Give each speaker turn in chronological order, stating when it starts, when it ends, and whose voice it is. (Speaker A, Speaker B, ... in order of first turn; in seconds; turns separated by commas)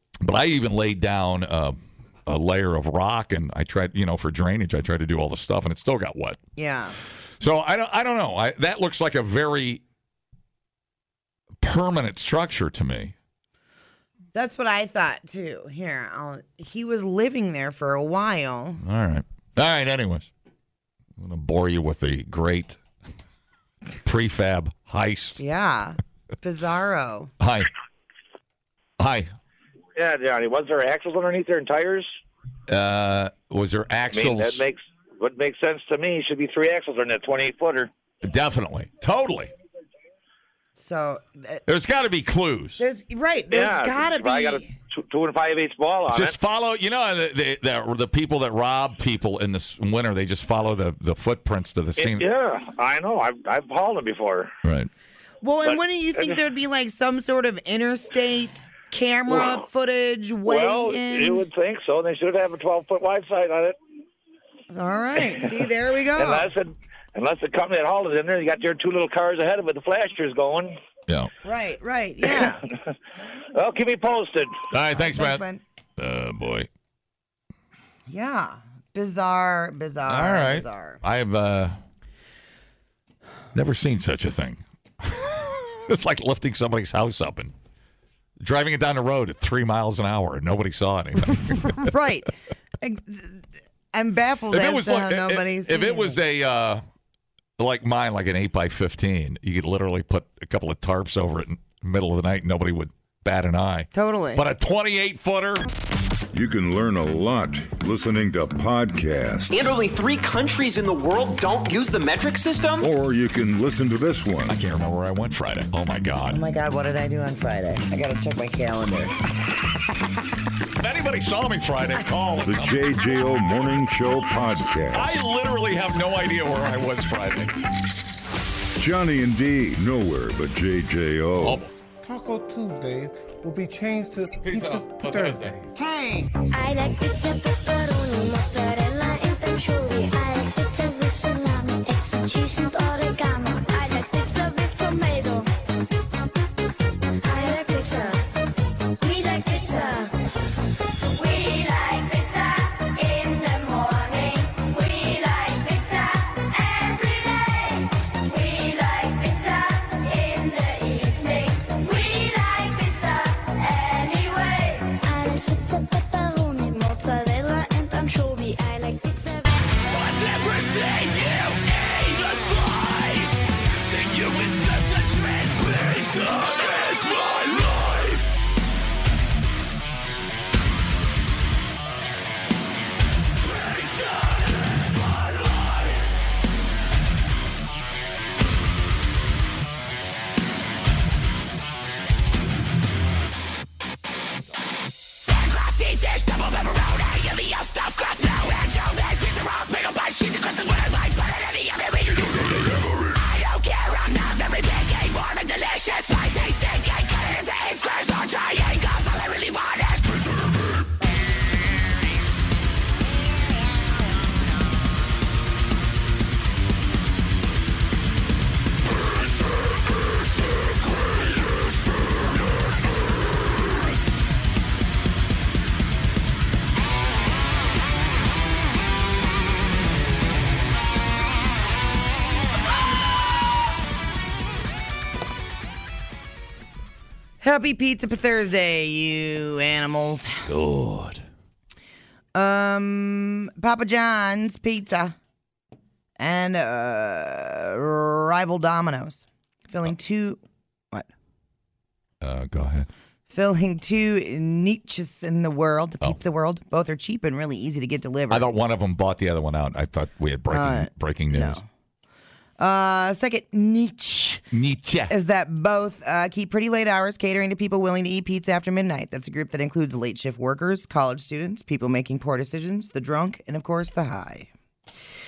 Speaker A: 0.2-6.4, Speaker B: 6.5-7.0, Speaker A: 7.4-9.8, Speaker A: 11.6-13.1, Speaker B: 14.3-18.8, Speaker A: 18.8-20.3, Speaker A: 21.2-22.8, Speaker A: 24.0-25.4, Speaker B: 25.4-27.3, Speaker A: 27.4-27.7, Speaker A: 29.0-29.3, Speaker C: 29.9-32.1, Speaker A: 32.7-34.7, Speaker C: 34.1-37.9, Speaker A: 38.2-39.5, Speaker B: 40.8-41.6, Speaker A: 41.6-42.8, Speaker B: 42.8-44.7, Speaker C: 43.5-46.3, Speaker A: 46.1-52.3, Speaker C: 52.0-54.5, Speaker A: 54.6-54.9, Speaker B: 55.4-61.5, Speaker C: 55.6-56.4, Speaker C: 59.3-59.6, Speaker C: 60.5-63.8, Speaker B: 64.7-66.5, Speaker C: 65.2-65.6, Speaker C: 66.2-70.8, Speaker B: 71.4-72.6, Speaker C: 72.2-72.5, Speaker C: 73.5-74.6, Speaker A: 74.7-75.4, Speaker B: 74.9-75.6, Speaker A: 76.0-76.7, Speaker B: 78.1-81.0, Speaker A: 80.0-81.8, Speaker A: 83.5-87.5, Speaker A: 88.4-91.9, Speaker B: 91.5-96.2, Speaker A: 94.5-96.8, Speaker A: 97.6-105.7, Speaker B: 103.9-104.4, Speaker D: 106.3-109.7, Speaker E: 109.5-112.9, Speaker D: 112.8-114.5, Speaker A: 114.5-116.4, Speaker B: 116.3-119.2, Speaker A: 120.8-122.9, Speaker D: 122.4-125.1, Speaker A: 124.9-127.5, Speaker D: 128.8-131.6, Speaker A: 131.4-131.7, Speaker F: 132.0-135.7, Speaker A: 134.4-135.6, Speaker B: 135.7-136.3, Speaker G: 136.5-145.5, Speaker G: 147.2-148.4, Speaker G: 149.0-150.1, Speaker G: 151.1-169.6, Speaker G: 195.5-202.0, Speaker G: 203.2-210.0, Speaker B: 237.4-240.5, Speaker A: 240.4-241.2, Speaker B: 242.3-245.1, Speaker B: 246.2-250.4, Speaker A: 252.2-252.9, Speaker B: 253.3-258.5, Speaker A: 258.3-261.6, Speaker B: 260.5-261.6, Speaker B: 262.6-264.4, Speaker A: 264.5-265.1, Speaker B: 265.1-274.5